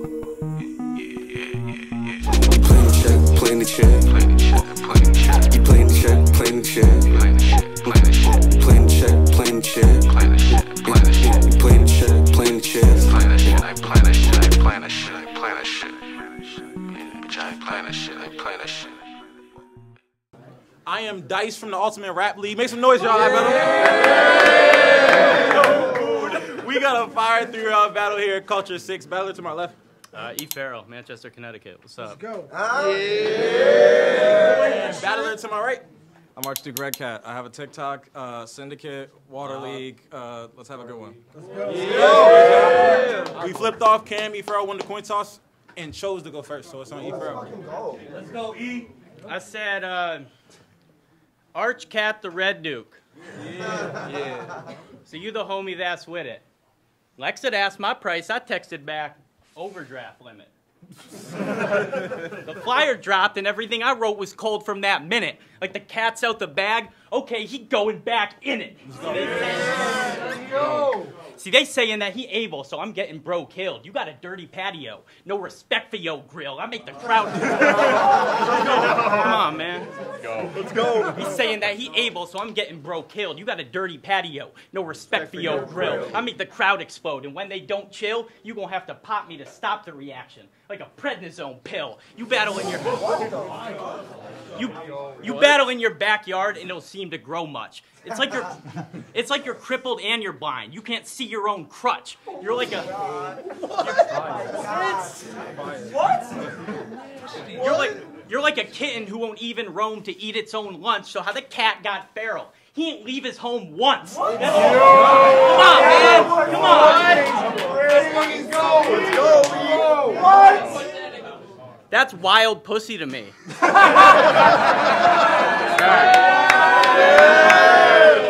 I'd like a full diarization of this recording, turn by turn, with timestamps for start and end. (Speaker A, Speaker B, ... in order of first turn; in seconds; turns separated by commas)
Speaker A: 1.0-19.0, Speaker B: 20.9-24.3, Speaker B: 25.3-29.8, Speaker C: 30.1-32.3, Speaker B: 32.9-35.8, Speaker D: 36.4-41.2, Speaker B: 41.7-47.5, Speaker C: 49.2-50.3, Speaker C: 51.5-53.0, Speaker B: 53.9-54.5, Speaker C: 55.0-56.4, Speaker C: 57.2-60.5, Speaker C: 62.3-70.2, Speaker C: 71.3-79.9, Speaker B: 80.4-81.1, Speaker C: 81.1-93.1, Speaker C: 94.5-98.6, Speaker C: 99.1-102.9, Speaker C: 103.7-104.2, Speaker C: 107.5-117.2, Speaker B: 118.4-120.1, Speaker C: 121.9-123.3